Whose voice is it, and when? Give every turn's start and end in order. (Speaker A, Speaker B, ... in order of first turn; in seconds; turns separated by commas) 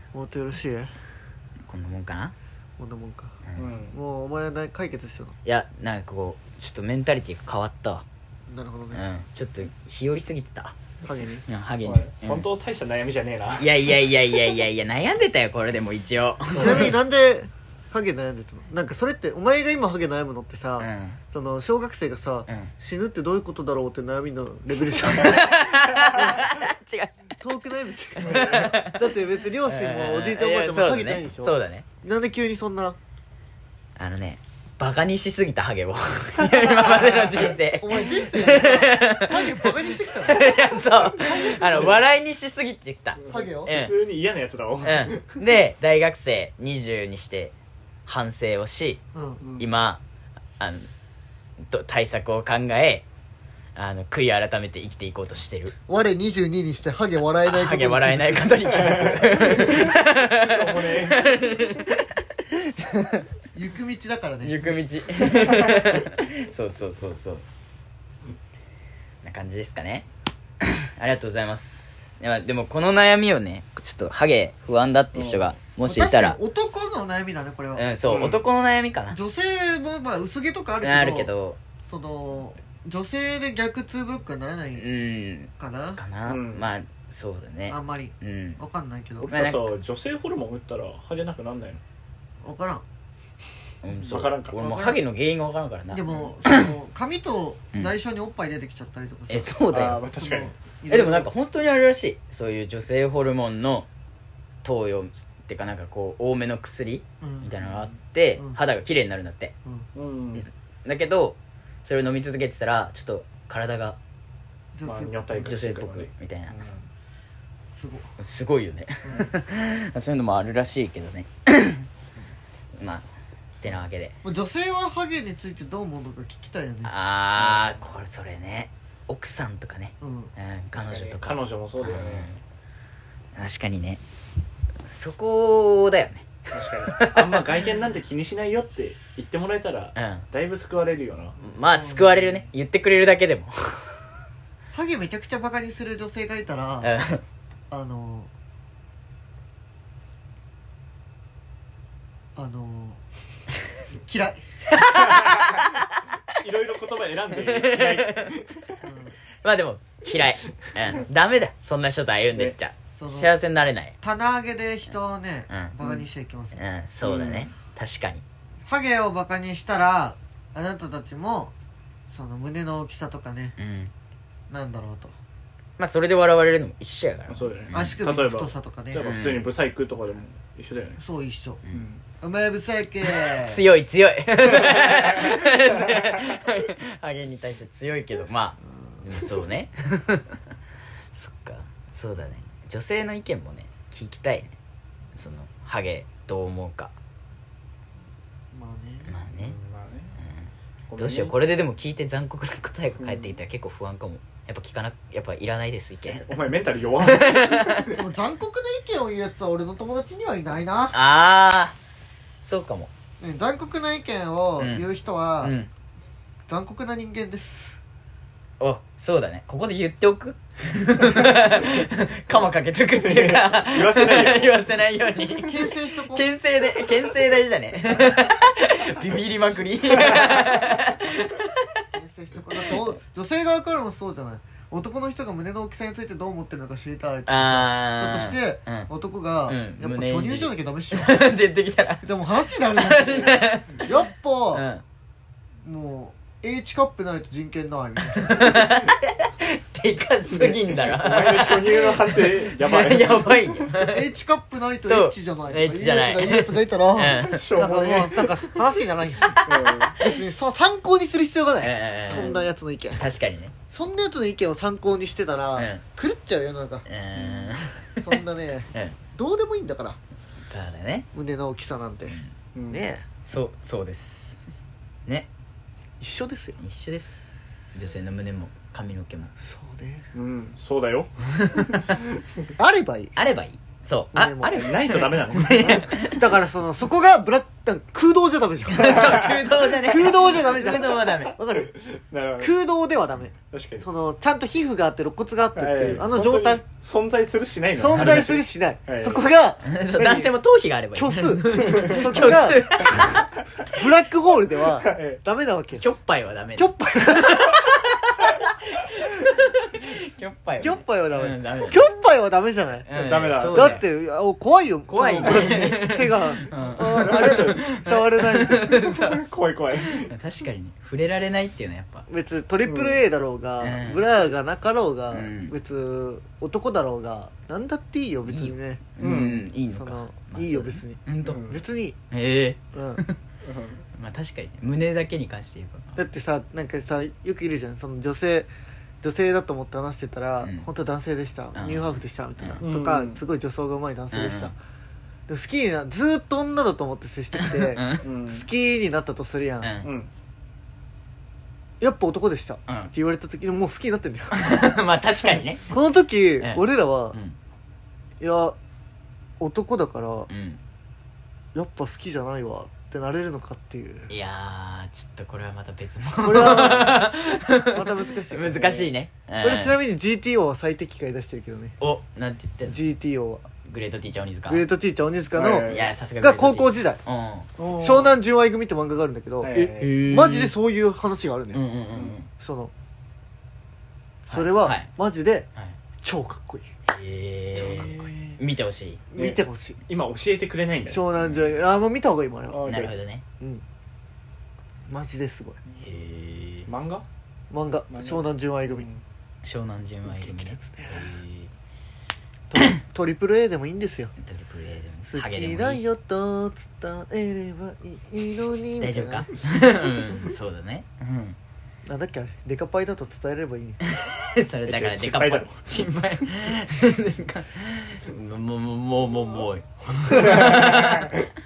Speaker A: 0.1-0.9, Speaker B: 1.6-2.3, Speaker A: 2.8-3.4, Speaker C: 3.6-4.0, Speaker A: 3.9-5.4, Speaker B: 5.4-8.0, Speaker A: 8.5-9.0, Speaker B: 8.9-10.8, Speaker A: 11.0-11.4, Speaker B: 11.4-12.4, Speaker C: 11.8-13.9, Speaker B: 13.6-16.9, Speaker C: 16.5-16.9, Speaker A: 16.5-26.4, Speaker B: 20.8-21.2, Speaker B: 25.1-27.2, Speaker A: 27.4-33.0, Speaker B: 28.2-29.0, Speaker C: 28.2-28.8, Speaker B: 29.6-31.9, Speaker B: 34.0-43.9, Speaker C: 36.5-37.5, Speaker A: 37.6-40.5, Speaker A: 41.1-42.0, Speaker C: 41.6-41.9, Speaker C: 43.2-45.4, Speaker A: 43.3-43.7, Speaker B: 44.8-47.5, Speaker B: 48.1-49.0, Speaker A: 49.1-49.4, Speaker B: 49.6-50.0, Speaker B: 50.6-50.9, Speaker B: 51.6-53.0, Speaker B: 53.8-55.7, Speaker A: 55.9-58.9, Speaker B: 57.5-63.3, Speaker C: 58.7-61.4, Speaker A: 63.5-64.6, Speaker B: 64.4-67.4, Speaker C: 65.5-65.8, Speaker B: 69.2-70.1, Speaker B: 70.6-76.4, Speaker C: 75.1-75.5, Speaker A: 75.8-77.9, Speaker B: 77.8-79.2, Speaker C: 78.0-78.4, Speaker A: 79.1-81.3, Speaker B: 80.8-81.6, Speaker A: 81.8-84.9, Speaker B: 84.7-88.6, Speaker A: 85.6-86.0, Speaker C: 86.3-86.7, Speaker A: 87.7-89.3, Speaker C: 89.2-91.8, Speaker B: 89.3-89.7, Speaker A: 92.4-92.8, Speaker B: 93.8-96.7, Speaker C: 94.0-94.6, Speaker A: 94.6-95.0, Speaker A: 95.9-99.5, Speaker B: 99.3-100.0, Speaker C: 99.7-100.5, Speaker A: 100.1-101.3, Speaker B: 100.9-103.9, Speaker B: 104.6-109.5, Speaker A: 107.2-107.5, Speaker A: 108.4-108.6, Speaker C: 109.9-110.5, Speaker B: 110.4-114.0, Speaker A: 114.7-115.5, Speaker C: 114.8-116.8, Speaker B: 115.4-116.5, Speaker A: 117.7-118.1, Speaker B: 118.2-121.9, Speaker B: 122.8-123.0, Speaker B: 123.6-124.2, Speaker A: 124.2-126.9, Speaker B: 126.8-132.4, Speaker C: 127.4-127.7, Speaker A: 130.0-130.3, Speaker C: 130.8-132.3, Speaker B: 133.4-134.0, Speaker B: 134.9-137.4, Speaker C: 136.5-141.4, Speaker B: 139.9-140.2, Speaker B: 141.4-143.8, Speaker A: 141.6-142.5, Speaker A: 144.7-146.9, Speaker B: 146.8-147.2, Speaker A: 147.7-148.3, Speaker A: 152.4-153.0, Speaker A: 153.9-154.4, Speaker B: 154.7-156.1, Speaker C: 155.0-155.7, Speaker C: 156.3-158.8, Speaker B: 157.3-158.4, Speaker A: 158.8-159.2, Speaker B: 159.4-163.9, Speaker A: 162.9-163.3, Speaker A: 164.0-166.6, Speaker B: 166.5-168.2, Speaker C: 167.0-167.5, Speaker A: 168.7-171.5, Speaker A: 172.1-173.6, Speaker B: 173.6-173.9, Speaker A: 174.5-175.1, Speaker B: 175.8-178.0, Speaker C: 177.3-181.0, Speaker A: 177.7-179.1, Speaker B: 179.0-179.5, Speaker A: 181.0-181.6, Speaker C: 181.7-182.0, Speaker A: 182.2-183.6, Speaker B: 183.1-190.4, Speaker C: 184.5-186.2, Speaker A: 188.8-189.0, Speaker B: 191.1-194.5, Speaker B: 195.1-196.9, Speaker A: 198.5-199.1, Speaker B: 199.1-199.5, Speaker C: 199.4-200.1, Speaker B: 200.2-206.3, Speaker C: 200.9-201.3, Speaker C: 203.0-203.4, Speaker C: 206.1-208.0, Speaker B: 207.0-207.9, Speaker A: 207.9-210.9, Speaker B: 210.9-211.8, Speaker B: 212.4-212.9, Speaker A: 213.2-215.5, Speaker B: 214.6-214.9, Speaker B: 215.4-215.7, Speaker A: 216.5-217.8, Speaker B: 218.6-231.8, Speaker C: 223.0-224.7, Speaker A: 225.4-226.3, Speaker A: 231.9-241.2, Speaker B: 232.5-232.9, Speaker B: 237.3-238.9, Speaker B: 239.5-242.1, Speaker A: 242.0-244.7, Speaker B: 242.7-243.9, Speaker B: 244.5-244.8, Speaker A: 245.6-248.9, Speaker B: 248.1-254.1, Speaker C: 250.3-253.7, Speaker A: 253.7-263.0, Speaker B: 254.9-257.4, Speaker C: 257.1-258.6, Speaker C: 259.3-260.0, Speaker B: 261.6-262.4, Speaker C: 262.1-262.4, Speaker B: 262.9-263.5, Speaker A: 263.7-266.9, Speaker B: 265.6-265.8, Speaker B: 266.9-268.2, Speaker C: 267.2-267.5, Speaker A: 268.0-270.0, Speaker B: 270.5-271.1, Speaker A: 271.1-272.2, Speaker C: 272.5-272.9, Speaker A: 272.7-273.1, Speaker B: 273.2-274.4, Speaker A: 276.0-276.6, Speaker B: 276.6-277.2, Speaker B: 277.7-279.3, Speaker A: 279.4-280.0, Speaker C: 280.1-282.5, Speaker B: 281.4-281.9, Speaker A: 282.6-283.2, Speaker B: 283.2-286.3, Speaker A: 284.1-284.7, Speaker C: 284.4-285.9, Speaker A: 285.4-291.8, Speaker B: 288.7-291.4, Speaker C: 288.8-289.5, Speaker C: 291.8-292.5, Speaker A: 292.4-296.6, Speaker C: 293.5-293.9, Speaker C: 295.6-299.2, Speaker A: 297.7-300.3, Speaker B: 297.9-298.3, Speaker B: 299.6-303.3, Speaker A: 300.9-302.9, Speaker C: 301.6-303.2, Speaker A: 303.7-305.8, Speaker C: 304.8-305.2, Speaker B: 305.8-311.9, Speaker A: 306.6-307.7, Speaker A: 310.6-312.9, Speaker B: 312.9-313.8, Speaker C: 312.9-313.8, Speaker A: 313.5-318.8, Speaker B: 314.9-319.2, Speaker C: 315.2-315.8, Speaker C: 316.6-317.7, Speaker C: 318.6-320.1, Speaker B: 319.8-322.1, Speaker A: 322.1-332.0, Speaker C: 322.6-323.0, Speaker B: 323.6-324.0, Speaker B: 325.1-325.5, Speaker B: 328.3-331.5, Speaker C: 329.0-329.4, Speaker C: 331.2-331.6, Speaker B: 332.1-333.2, Speaker A: 332.7-333.0, Speaker C: 333.4-333.9, Speaker B: 333.9-336.0, Speaker A: 335.9-338.5, Speaker A: 339.0-344.6, Speaker B: 341.5-342.7, Speaker C: 342.6-343.2, Speaker B: 344.1-344.5, Speaker A: 345.3-349.7, Speaker B: 347.4-348.0, Speaker C: 348.0-348.5, Speaker B: 349.6-349.9, Speaker C: 349.8-350.1, Speaker A: 351.8-354.6, Speaker B: 354.3-355.7, Speaker A: 355.7-357.1, Speaker B: 356.4-357.4, Speaker A: 358.2-358.6, Speaker A: 359.4-360.3, Speaker B: 360.3-360.6, Speaker A: 361.5-364.1, Speaker B: 364.1-369.8, Speaker A: 366.2-367.1, Speaker A: 367.7-368.8, Speaker C: 368.5-368.9, Speaker A: 369.4-371.7, Speaker B: 371.8-372.8, Speaker A: 372.7-373.5, Speaker B: 373.6-374.6, Speaker A: 374.5-377.0, Speaker C: 375.3-375.9, Speaker B: 375.6-377.5, Speaker C: 377.6-378.1, Speaker A: 377.7-381.6, Speaker C: 379.4-380.1, Speaker B: 379.5-380.5, Speaker B: 381.5-382.3, Speaker A: 382.3-382.7, Speaker A: 384.3-385.5, Speaker B: 384.3-384.9, Speaker A: 386.0-386.7, Speaker B: 386.9-389.0, Speaker A: 387.5-388.1, Speaker C: 387.6-388.4, Speaker A: 389.1-389.8, Speaker C: 389.1-391.0, Speaker A: 390.9-392.8, Speaker B: 391.1-391.5, Speaker C: 392.5-393.0, Speaker B: 392.6-393.2, Speaker A: 394.9-395.6, Speaker B: 395.8-396.7, Speaker C: 396.7-397.1, Speaker A: 397.5-398.9, Speaker C: 397.9-399.0, Speaker B: 399.4-401.5, Speaker A: 400.2-401.1, Speaker A: 402.5-404.1, Speaker B: 404.2-405.9, Speaker A: 405.1-409.3, Speaker B: 408.8-411.4, Speaker A: 411.9-413.8, Speaker B: 413.8-421.1, Speaker C: 414.6-415.7, Speaker C: 420.3-421.0